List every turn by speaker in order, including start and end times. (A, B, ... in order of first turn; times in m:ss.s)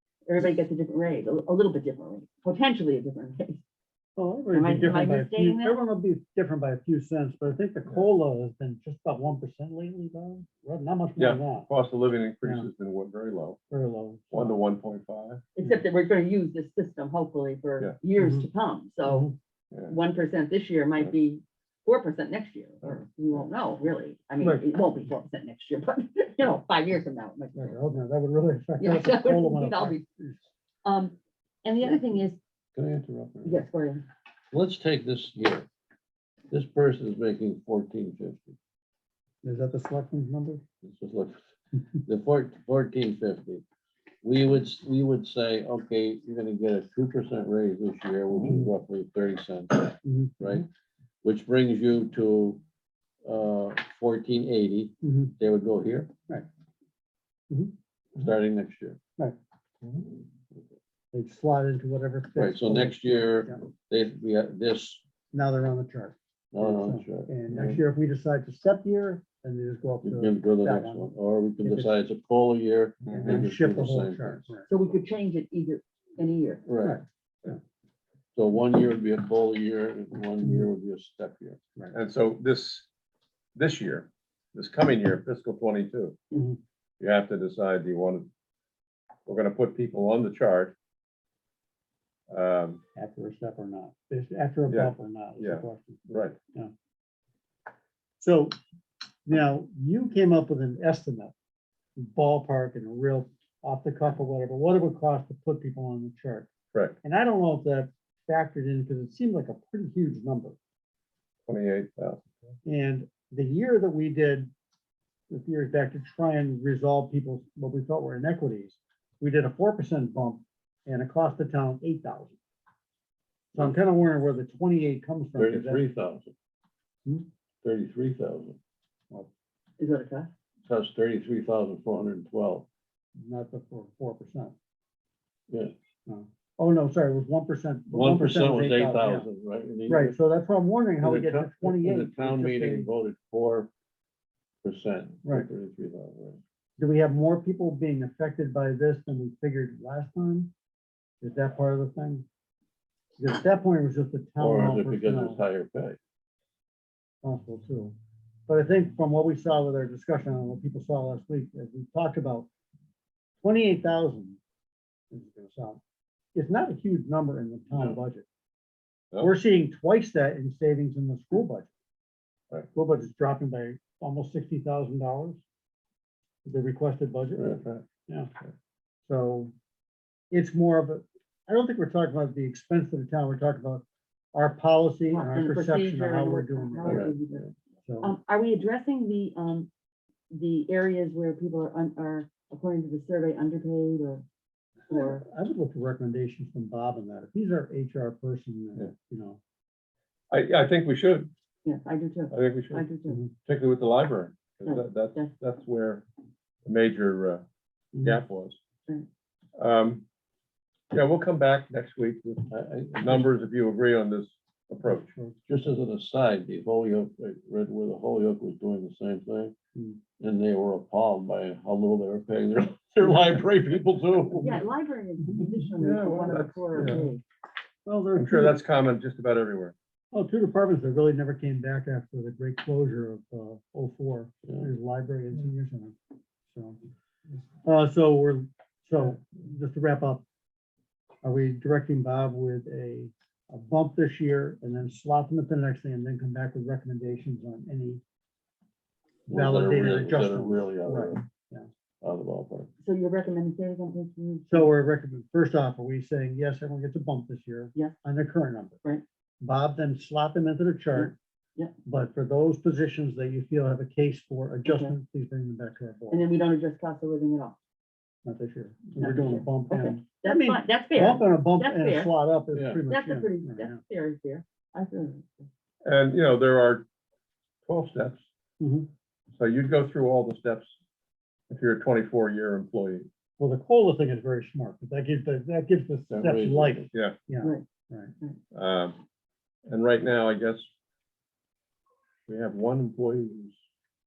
0:00.3-0:03.6 A
0:04.2-0:11.7 B
0:04.5-0:05.8 A
0:11.2-0:13.6 C
0:12.4-0:12.7 B
0:13.7-0:14.6 B
0:14.3-0:15.4 C
0:15.6-0:19.3 A
0:18.2-0:18.5 B
0:19.0-0:19.4 B
0:19.9-0:27.8 A
0:24.4-0:24.7 B
0:27.6-0:30.5 B
0:28.8-0:30.0 A
0:30.8-0:32.4 A
0:32.8-0:33.6 D
0:33.4-0:34.1 A
0:34.5-0:35.7 D
0:36.5-0:38.6 D
0:39.4-0:40.6 B
0:40.8-0:41.4 D
0:41.9-0:43.6 D
0:44.2-0:50.7 D
0:50.0-0:50.6 B
0:51.2-0:52.6 D
0:53.2-0:56.1 D
0:55.0-0:55.3 B
0:58.2-0:59.0 D
1:01.1-1:03.6 B
1:02.4-1:05.0 D
1:05.3-1:11.1 B
1:06.5-1:07.8 D
1:10.0-1:14.5 D
1:11.6-1:11.9 B
1:13.1-1:13.4 C
1:13.2-1:14.7 B
1:14.7-1:16.6 A
1:16.7-1:17.0 D
1:16.8-1:17.6 B
1:18.4-1:21.6 D
1:21.9-1:22.9 C
1:23.6-1:26.2 C
1:26.3-1:26.6 B
1:27.0-1:28.3 C
1:29.3-1:30.7 C
1:32.3-1:32.8 C
1:33.0-1:36.7 B
1:34.7-1:36.4 C
1:38.2-1:38.5 B
1:39.3-1:41.3 B
1:42.0-1:46.5 B
1:47.0-1:50.6 B
1:51.5-1:52.2 C
1:52.7-1:54.5 B
1:55.3-2:02.4 B
2:03.5-2:05.8 B
2:05.4-2:06.3 D
2:07.6-2:08.6 D
2:09.8-2:10.3 A
2:10.7-2:12.7 D
2:13.2-2:14.5 B
2:16.1-2:19.3 B
2:17.9-2:20.2 D
2:19.9-2:22.9 B
2:21.0-2:23.7 D
2:24.6-2:26.4 D
2:26.8-2:30.5 B
2:31.2-2:32.3 B
2:33.2-2:35.4 B
2:34.4-2:36.0 D
2:37.2-2:38.0 B
2:38.5-2:42.5 B
2:43.4-2:44.4 B
2:45.1-2:45.8 B
2:46.3-2:48.3 B
2:49.2-2:51.7 B
2:52.7-2:55.4 B
2:56.4-2:58.3 B
2:57.4-2:57.8 D
2:59.1-2:59.5 B
3:00.3-3:07.1 B
3:05.1-3:07.5 A
3:06.8-3:07.2 D
3:07.9-3:08.1 B
3:08.0-3:09.7 A
3:10.3-3:14.2 A
3:14.9-3:19.4 B
3:14.9-3:15.2 A
3:20.3-3:21.3 C
3:21.6-3:23.2 A
3:22.3-3:22.9 C
3:23.5-3:26.0 C
3:24.7-3:25.3 A
3:26.7-3:27.4 C
3:28.0-3:28.2 B
3:28.0-3:28.6 C
3:29.6-3:30.0 C
3:30.9-3:35.1 C
3:32.5-3:33.3 D
3:34.8-3:35.4 B
3:35.5-3:39.6 D
3:39.8-3:40.0 B
3:40.2-3:44.6 D
3:44.4-3:47.2 A
3:45.8-3:47.0 C
3:46.8-3:47.1 B
3:47.9-3:48.6 B
3:48.2-3:49.8 C
3:50.1-3:56.0 B
3:56.5-3:56.8 B
3:57.6-4:00.2 B
4:01.2-4:08.0 B
4:09.3-4:11.2 D
4:09.3-4:11.7 B
4:12.0-4:12.7 D
4:12.8-4:14.7 A
4:14.5-4:18.8 B
4:19.4-4:21.2 B
4:21.0-4:21.7 A
4:21.9-4:26.3 B
4:24.6-4:24.9 A
4:26.1-4:27.6 A
4:28.2-4:33.8 B
4:29.0-4:32.1 A
4:32.5-4:32.8 D
4:32.9-4:35.5 A
4:35.8-4:36.8 C
4:37.7-4:38.2 C
4:38.6-4:38.9 B
4:39.4-4:40.7 C
4:41.5-4:43.1 C
4:43.4-4:48.1 B
4:46.1-4:46.9 D
4:48.5-4:49.0 C
4:49.7-4:50.7 C
4:52.3-4:53.6 C